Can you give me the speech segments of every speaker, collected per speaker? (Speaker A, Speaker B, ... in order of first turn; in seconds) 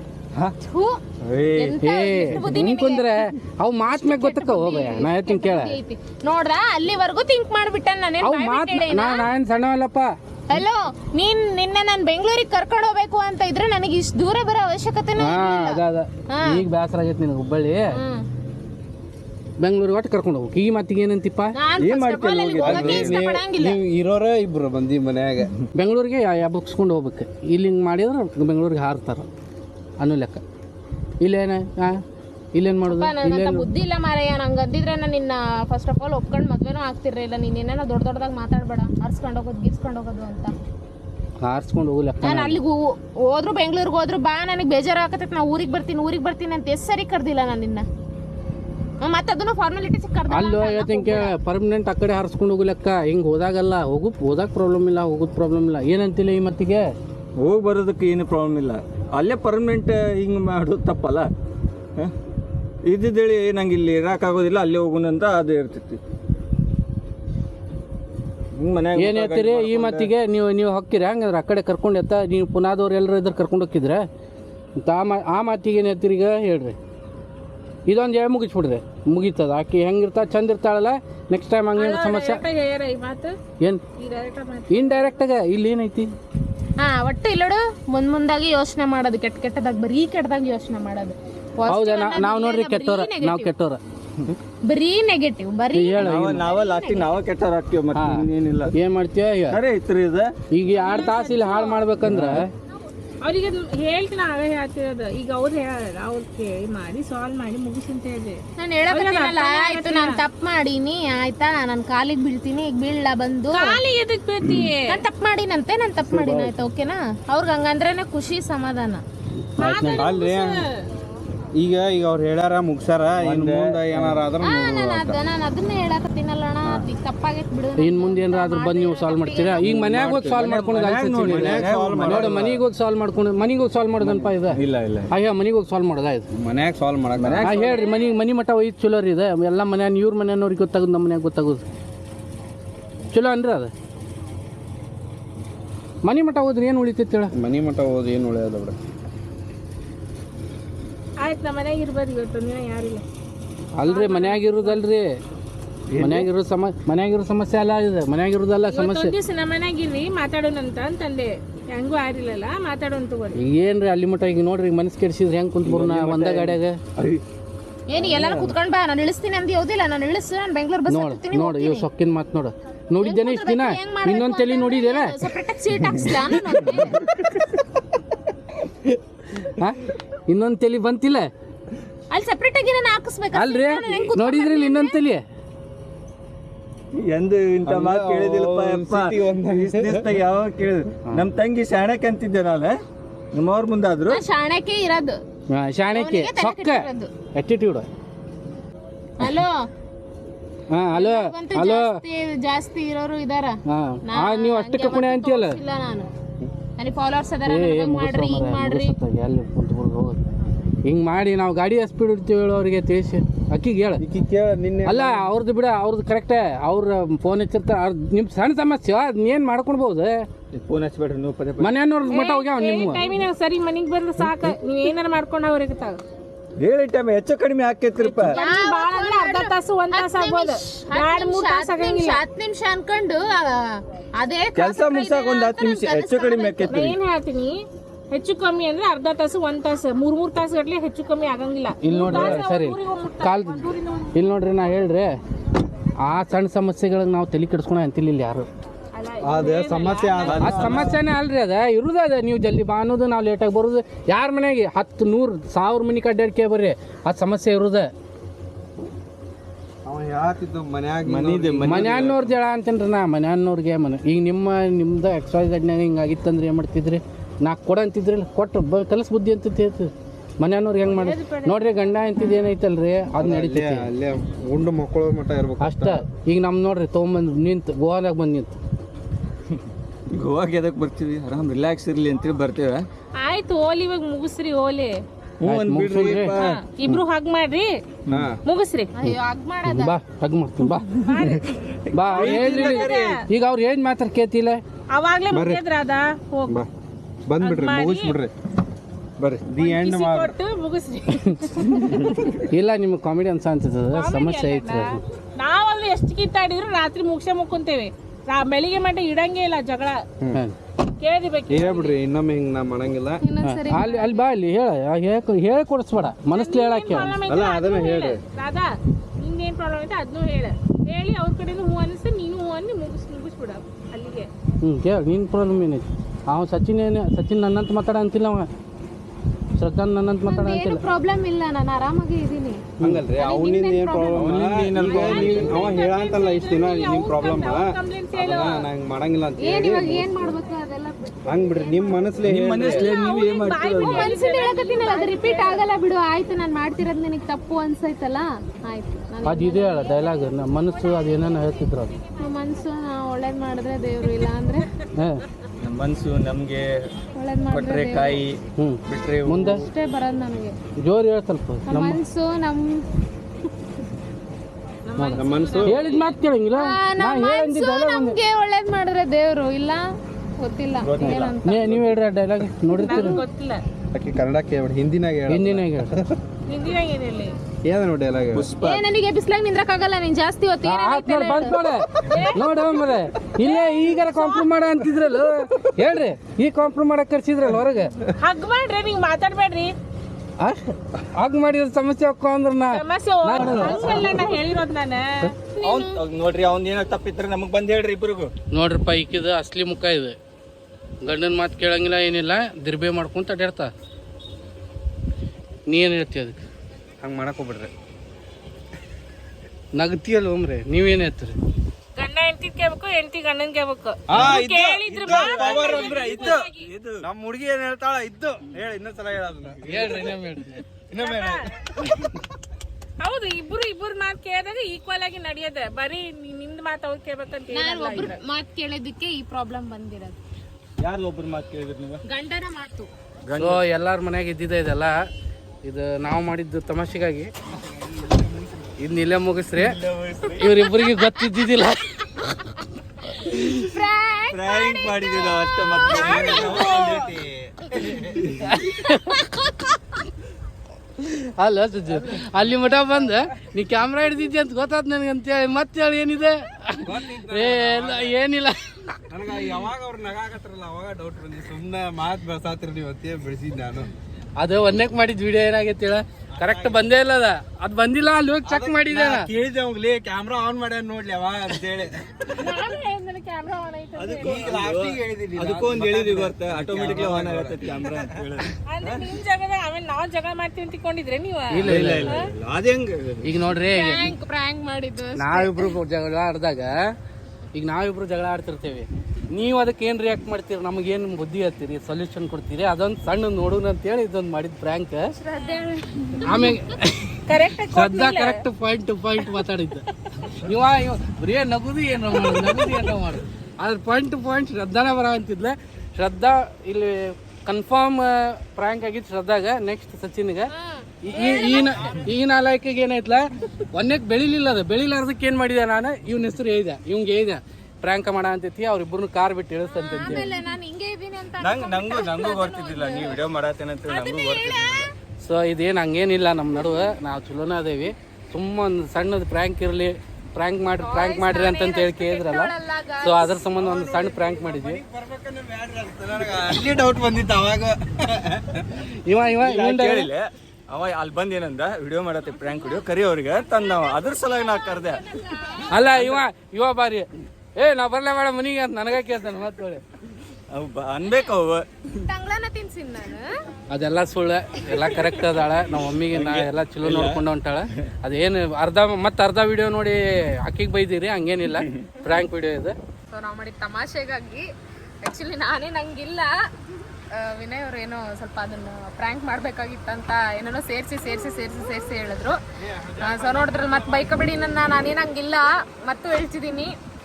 Speaker A: 0.6-1.0, 1.6-3.1, 3.9-9.3, 10.5-16.6, 17.9-18.2, 21.6-23.8, 32.9-40.5, 42.2-47.9, 49.0-51.3, 86.8-93.5, 94.7-97.2, 108.6-113.8, 114.9-119.0, 124.4-129.7, 167.9-171.9, 173.0-177.0, 182.1-185.0, 194.1-195.2, 195.9-197.1, 199.2-199.5, 200.9-206.1, 206.8-209.0, 228.3-236.8, 288.9-290.0, 313.2-314.1, 330.3-334.4, 339.4-342.1, 343.8-350.0, 352.2-354.7, 357.1-358.2, 359.4-360.6, 361.7-362.8, 366.5-371.8, 378.6-381.7, 395.5-396.0, 427.5-430.2, 432.1-432.9, 443.2-446.9, 483.7-485.8, 495.3-495.7, 510.6-512.0, 519.7-523.2, 523.9-524.9, 530.8-533.5, 543.8-545.8, 552.0-553.3, 563.1-564.5, 565.0-566.3, 567.1-572.4, 573.0-576.7
Speaker B: 1.2-1.8, 21.8-23.2, 57.4-61.3, 62.9-66.0, 68.5-70.1, 96.0-98.7, 99.5-100.3, 102.1-102.4, 123.2-124.2, 129.6-132.6, 134.0-135.1, 137.2-137.8, 155.9-156.3, 165.7-167.2, 168.0-168.6, 187.0-192.7, 193.3-194.2, 220.5-221.7, 226.6-228.4, 234.6-237.0, 250.2-251.0, 261.1-262.3, 280.1-282.9, 285.4-286.6, 288.1-288.3, 291.9-293.2, 301.8-302.2, 334.0-335.8, 342.2-344.1, 355.6-356.7, 357.5-359.7, 370.8-371.9, 378.3-378.8, 395.6-398.3, 415.0-417.1, 430.8-432.0, 433.2-433.6, 439.6-440.9, 444.3-447.1, 474.0-478.5, 481.6-483.3, 521.4-524.9, 539.4-545.0, 545.9-546.2, 550.5-551.7, 554.8-555.2, 555.9-557.2
Speaker C: 1.8-5.8, 8.2-10.1, 15.2-17.9, 19.6-21.6, 25.8-29.3, 30.0-30.4, 31.2-32.0, 32.5-33.7, 41.4-42.6, 50.3-56.9, 69.0-74.0, 74.8-76.8, 77.9-82.4, 84.7-86.1, 91.7-93.8, 95.7-96.5, 97.9-99.6, 100.5-102.5, 119.6-120.1, 127.8-134.6, 135.1-136.3, 137.4-141.6, 143.1-143.7, 146.0-147.3, 153.8-155.1, 156.0-159.1, 163.3-166.8, 170.9-175.2, 179.5-181.3, 183.3-185.2, 195.5-197.9, 200.7-202.0, 203.7-205.6, 207.5-210.2, 210.8-214.0, 214.9-220.3, 221.6-223.1, 241.8-245.2, 246.1-248.5, 250.4-257.9, 261.6-273.9, 275.6-278.6, 285.5-287.0, 289.0-291.0, 291.9-294.6, 302.5-305.0, 313.4-317.2, 324.6-328.5, 329.6-330.8, 349.2-351.9, 355.0-355.2, 358.6-359.6, 360.8-362.0, 365.0-368.2, 371.1-373.2, 375.3-375.9, 380.6-387.9, 390.4-394.1, 398.5-400.2, 401.0-403.7, 405.7-406.4, 409.8-411.4, 419.6-420.6, 433.4-434.9, 435.6-437.3, 438.8-439.8, 440.4-442.1, 443.3-443.6, 448.4-449.3, 451.0-459.0, 464.4-469.3, 481.5-482.2, 483.2-484.1, 485.2-486.7, 487.6-495.1, 496.2-497.2, 497.7-510.5, 511.0-520.4, 525.2-534.8, 539.1-540.1, 545.7-549.8, 553.7-562.8
Speaker D: 22.6-25.5, 116.1-116.5, 119.9-120.6, 121.6-125.2, 129.8-132.6, 136.3-137.5, 147.3-148.8, 187.7-190.0, 214.0-215.3, 249.2-251.0, 259.9-262.1, 273.2-276.1, 288.1-288.4, 295.3-295.6, 297.3-298.3, 299.2-300.3, 311.5-313.2, 317.3-318.2, 332.8-340.3, 341.3-342.9, 365.1-365.8, 373.9-376.2, 377.6-378.5, 407.0-407.7, 414.1-416.3, 417.0-420.1, 420.9-422.1, 437.8-438.7, 445.9-448.3, 456.9-458.2, 459.1-463.9, 466.4-466.9, 468.5-472.5, 474.2-478.5, 533.5-538.8, 572.8-574.1
Speaker E: 81.8-83.4, 84.0-85.0, 100.7-101.9, 103.2-110.2, 113.5-115.0, 119.6-120.8, 151.2-153.1, 153.8-154.8, 158.7-163.4, 222.1-226.0, 228.0-232.2, 236.7-244.1, 248.9-250.8, 270.9-271.5, 283.2-285.0, 286.2-287.8, 288.4-288.9, 291.0-291.5, 292.1-293.1, 294.9-296.6, 297.4-298.2, 299.6-302.1, 303.9-310.0, 311.0-311.9, 316.3-318.7, 319.2-324.3, 334.8-338.7, 342.7-345.6, 350.0-352.1, 364.9-366.2, 372.8-373.6, 376.5-377.3, 382.1-382.7, 383.5-384.4, 388.2-389.7, 392.7-395.3, 412.0-416.6, 421.0-421.5, 423.0-428.2, 472.3-474.6, 478.7-482.3, 495.3-496.3, 497.3-498.4